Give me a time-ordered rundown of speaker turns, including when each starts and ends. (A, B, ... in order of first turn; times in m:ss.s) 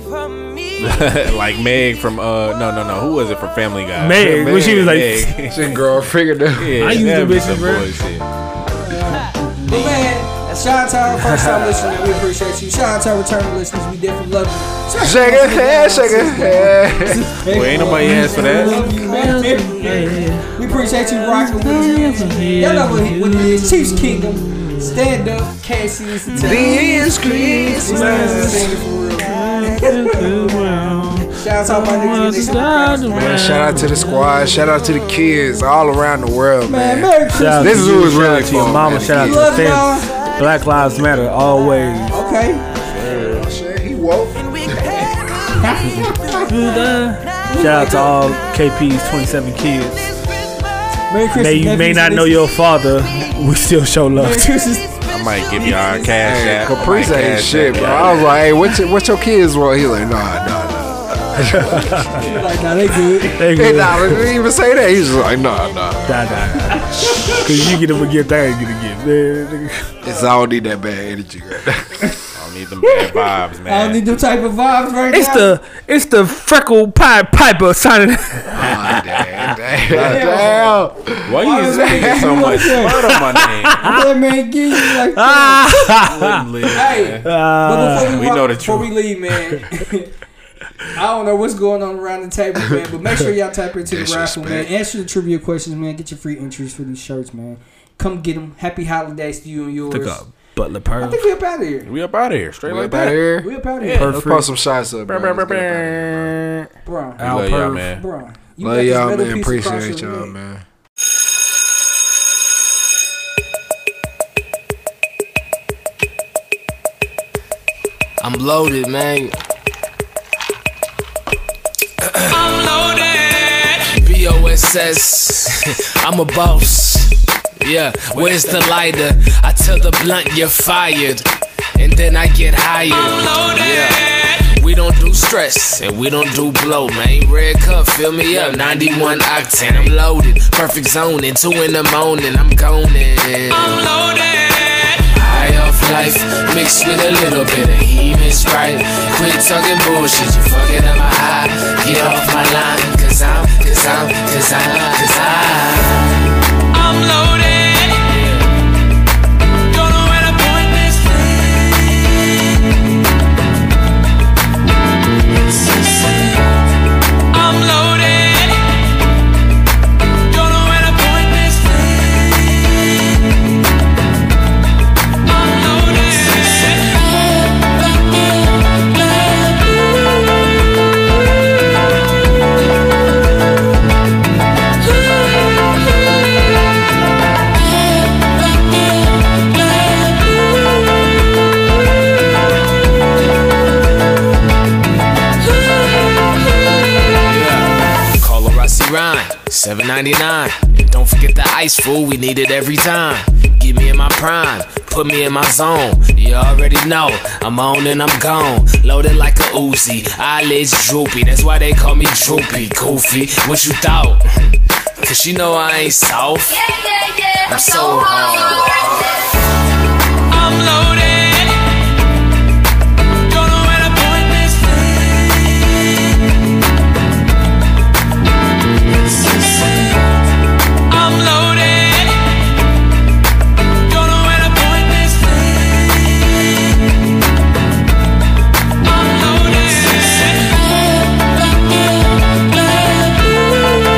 0:00.3-0:01.2 A
0:00.8-0:05.8 B
0:04.0-0:05.4 C
0:05.4-0:07.0 D
0:06.5-0:08.3 B
0:06.8-0:07.9 C
0:08.8-0:30.7 E
0:08.9-0:10.1 C
0:14.9-0:17.3 D
0:17.5-0:19.0 B
0:18.0-0:25.0 C
0:26.3-0:34.0 C
0:26.3-0:28.6 D
0:31.3-0:33.4 E
0:33.1-0:39.6 D
0:36.6-0:37.8 E
0:37.3-0:42.2 C
0:39.1-0:40.1 E
0:42.1-0:42.6 E
0:42.9-0:43.4 B
0:43.2-0:45.0 D
0:44.6-0:47.0 A
0:44.9-0:46.8 E
0:46.5-0:50.1 C
0:47.5-0:48.4 E
0:51.1-0:52.4 E
0:51.3-0:54.6 C
0:54.1-0:56.2 E
0:55.0-0:58.4 B
0:56.2-1:02.2 D
1:01.5-1:02.2 C
1:02.1-1:03.5 E
1:03.4-1:04.3 C
1:03.5-1:06.8 D
1:06.0-1:09.9 C
1:06.8-1:07.4 E
1:10.0-1:12.1 D
1:12.3-1:14.2 B
1:13.6-1:15.6 E
1:15.1-1:19.2 C
1:18.5-1:21.4 D
1:19.9-1:20.5 B
1:19.9-1:23.1 E
1:21.2-1:24.0 B
1:22.0-1:22.4 D
1:23.0-1:24.1 C
1:23.8-1:25.7 E
1:24.9-1:26.4 C
1:25.8-1:27.3 B
1:26.7-1:30.1 E
1:27.2-1:28.2 C
1:27.8-1:28.9 B
1:30.9-1:40.2 E
1:33.8-1:34.7 D
1:39.9-1:41.2 C
1:41.0-1:41.9 E
1:41.8-1:44.1 B
1:42.6-1:46.3 D
1:43.4-1:44.1 E
1:44.0-1:44.5 C
1:45.0-1:48.0 B
1:46.8-1:47.2 E
1:47.2-1:47.9 C
1:47.8-1:50.3 E
1:48.6-1:50.6 D
1:58.2-1:59.3 A
2:02.1-2:02.9 A
2:03.7-2:11.2 A
2:08.1-2:08.8 B
2:11.8-2:24.0 A
2:18.3-2:18.8 B
2:25.1-2:36.2 A
2:37.8-2:38.5 A
2:40.4-2:41.0 A
3:17.4-3:17.6 B
3:18.2-3:34.2 A
3:35.0-3:36.6 A
3:37.3-3:39.1 A